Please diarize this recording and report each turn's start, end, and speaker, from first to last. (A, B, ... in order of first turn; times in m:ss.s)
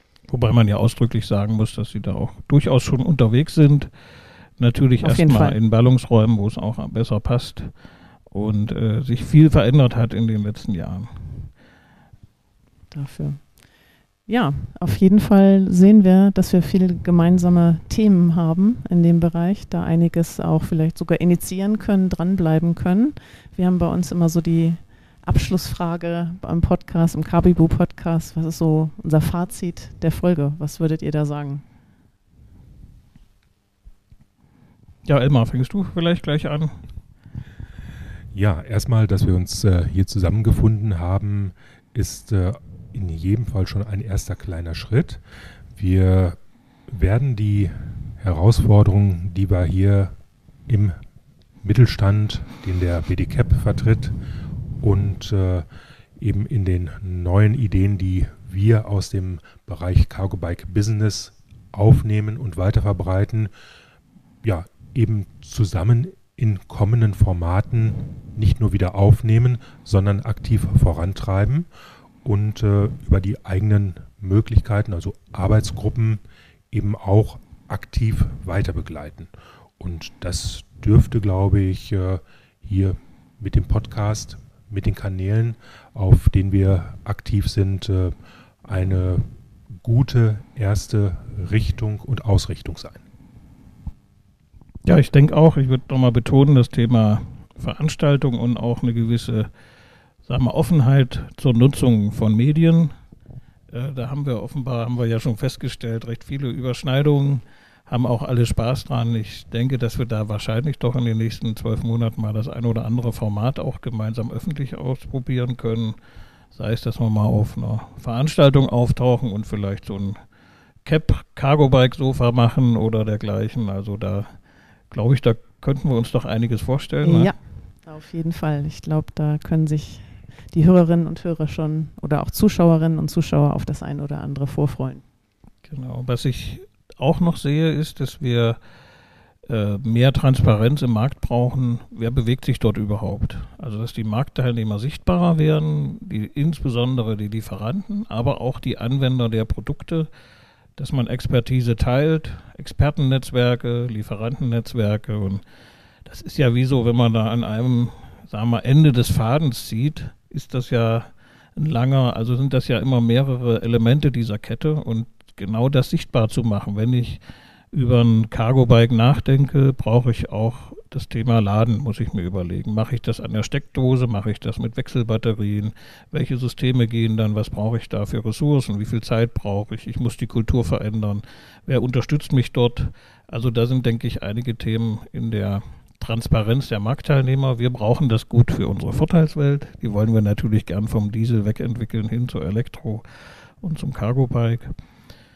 0:00.3-0:03.9 A
0:04.6-0:07.7 A
0:05.0-0:05.6 B
0:08.3-0:11.5 A
0:12.9-0:13.4 B
0:14.3-0:31.6 B
0:35.0-0:36.8 A
0:38.3-0:45.2 C
0:45.8-0:50.1 C
0:50.7-0:51.0 C
0:51.6-0:54.2 C
0:54.8-0:55.7 C
0:56.2-1:03.5 C
1:04.4-1:11.7 C
1:12.2-1:28.2 C
1:28.7-1:29.3 C
1:29.8-1:33.0 C
1:34.9-1:39.5 A
1:40.3-1:42.9 A
1:43.7-1:56.0 A
1:56.5-2:00.2 A
2:00.8-2:04.3 A
2:04.9-2:07.3 A
2:07.0-2:15.0 B
2:15.7-2:18.6 A
2:19.5-2:30.1 A
2:30.8-2:35.4 A
2:36.1-2:47.2 A
2:47.7-3:14.7 A